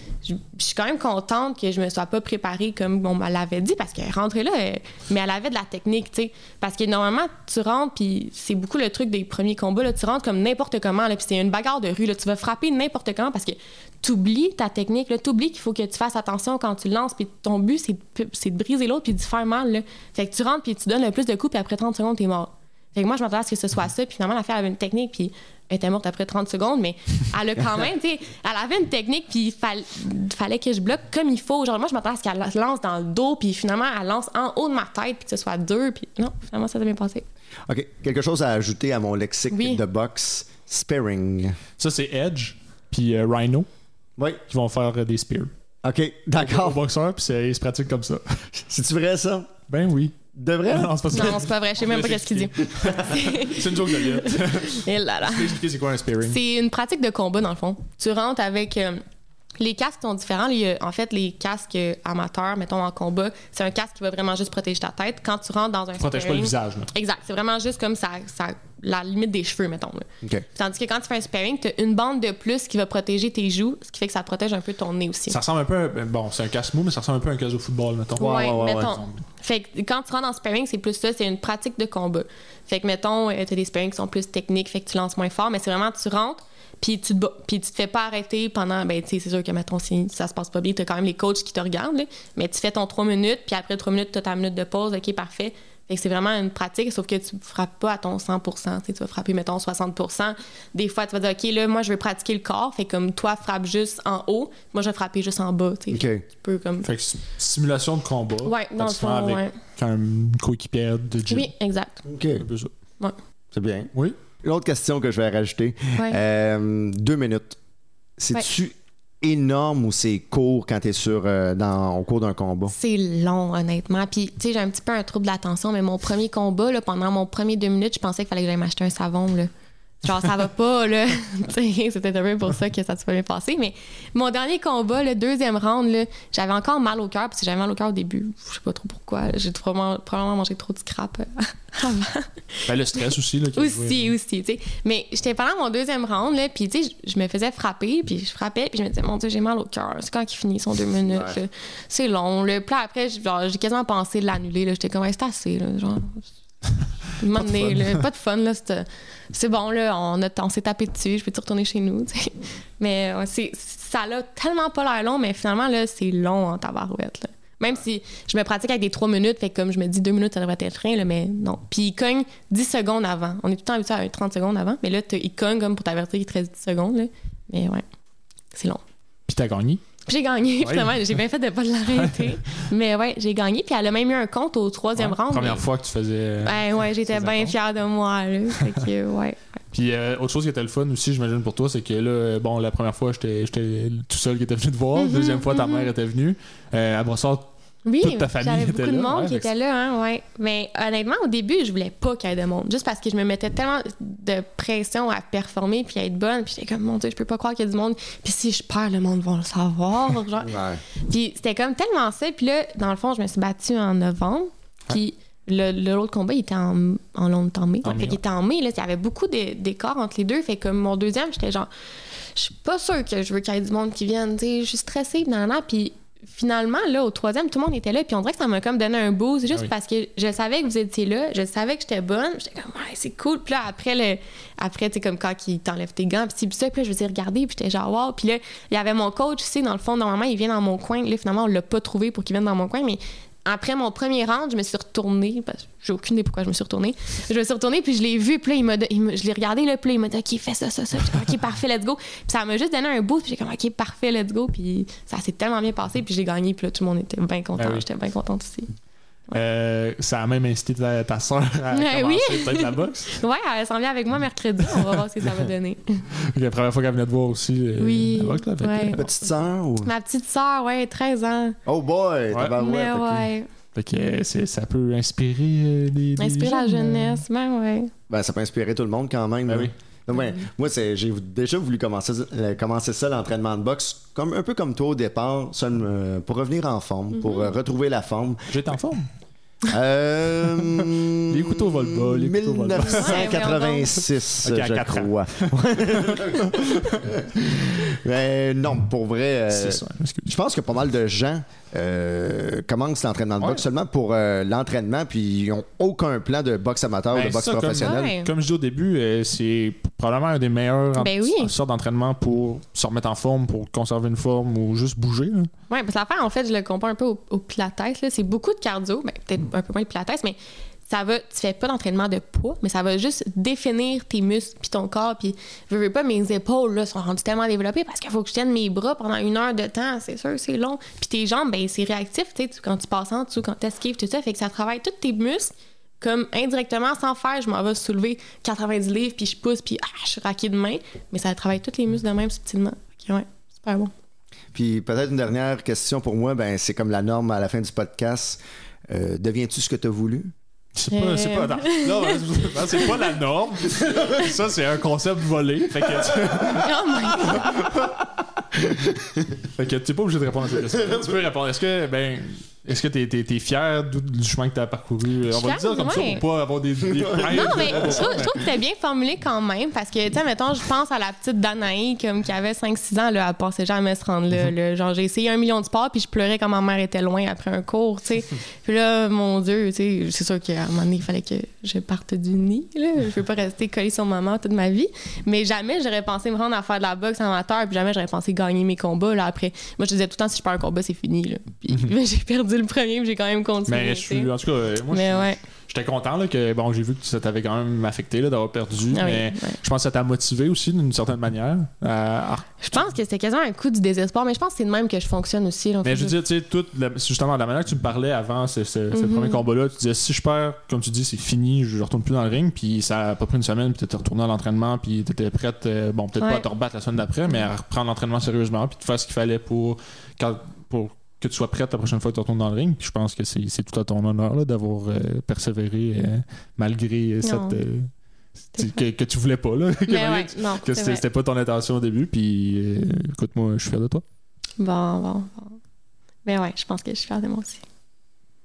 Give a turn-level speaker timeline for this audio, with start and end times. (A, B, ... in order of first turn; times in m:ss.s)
0:00.2-0:37.2 A
0:37.7-0:41.6 B
0:39.5-0:39.8 A
0:41.8-0:43.7 C
0:44.2-0:44.4 B
0:44.5-0:45.5 C
0:45.8-0:46.8 B
0:46.4-0:48.4 C
0:48.6-0:49.5 B
0:49.7-0:50.2 C
0:50.4-0:51.1 B
0:50.7-0:56.4 C
0:51.1-0:55.6 A
0:56.3-0:59.0 A
0:59.6-1:15.4 A
1:06.0-1:06.9 C
1:15.3-1:19.2 C
1:18.2-1:19.0 B
1:18.2-1:46.9 A
1:45.9-1:46.2 B
1:46.8-1:51.5 C
1:48.4-1:49.5 A
1:51.3-1:52.0 A
1:52.1-1:52.4 B
1:52.4-1:52.7 C
1:53.5-1:53.9 B
1:54.4-1:57.6 B
1:58.2-2:02.7 B
2:02.7-2:23.0 A
2:22.7-2:24.1 C
2:23.6-2:36.3 A
2:31.1-2:31.4 B
2:37.2-2:57.8 A
2:37.3-2:38.0 C
2:58.5-2:58.8 A
2:59.3-2:59.8 C
3:00.1-3:05.6 A
3:00.6-3:01.2 C
3:01.9-3:02.3 C
3:05.0-3:07.6 C
3:06.4-3:09.4 A
3:09.7-3:17.5 C
3:15.0-3:15.9 A
3:17.8-3:30.5 A
3:18.0-3:19.5 C
3:30.4-3:30.8 B
3:31.1-3:41.7 A
3:37.8-3:38.2 C
3:42.4-4:18.7 A
4:17.6-4:17.9 C
4:19.3-4:23.2 C
4:21.7-4:26.1 A
4:26.2-4:29.0 C
4:27.8-4:29.0 A
4:28.9-4:29.9 B
4:29.8-4:31.6 A
4:31.7-4:33.3 B
4:32.6-4:33.5 A
4:33.8-4:37.2 C
4:36.2-4:37.9 A
4:38.1-4:48.6 B
4:39.5-4:40.3 C
4:47.2-4:47.5 A
4:48.5-4:49.1 C
4:49.7-5:08.1 B
4:51.2-4:53.2 C
4:52.8-4:54.0 A
4:54.4-4:57.1 C
4:59.5-5:00.4 C
5:07.1-5:15.5 C
5:07.8-5:08.3 A
5:11.0-5:11.5 A
5:15.7-5:43.9 A
5:44.5-5:50.3 B
5:50.8-5:57.9 C
5:50.9-5:53.0 A
5:56.4-5:57.8 A
5:58.6-5:59.2 B
5:59.4-6:08.4 C
6:05.3-6:06.2 A
6:06.8-6:08.1 B
6:07.3-6:34.3 A
6:31.7-6:32.0 C
6:33.7-6:42.8 C
6:34.9-6:35.4 A
6:38.9-6:39.6 A
6:42.6-6:46.2 A
6:45.8-7:07.9 C
6:48.9-6:49.4 A
7:07.2-7:07.6 A
7:08.5-7:14.0 C
7:08.6-7:08.8 A
7:09.9-7:11.0 A
7:14.6-7:15.6 A
7:16.3-7:17.6 A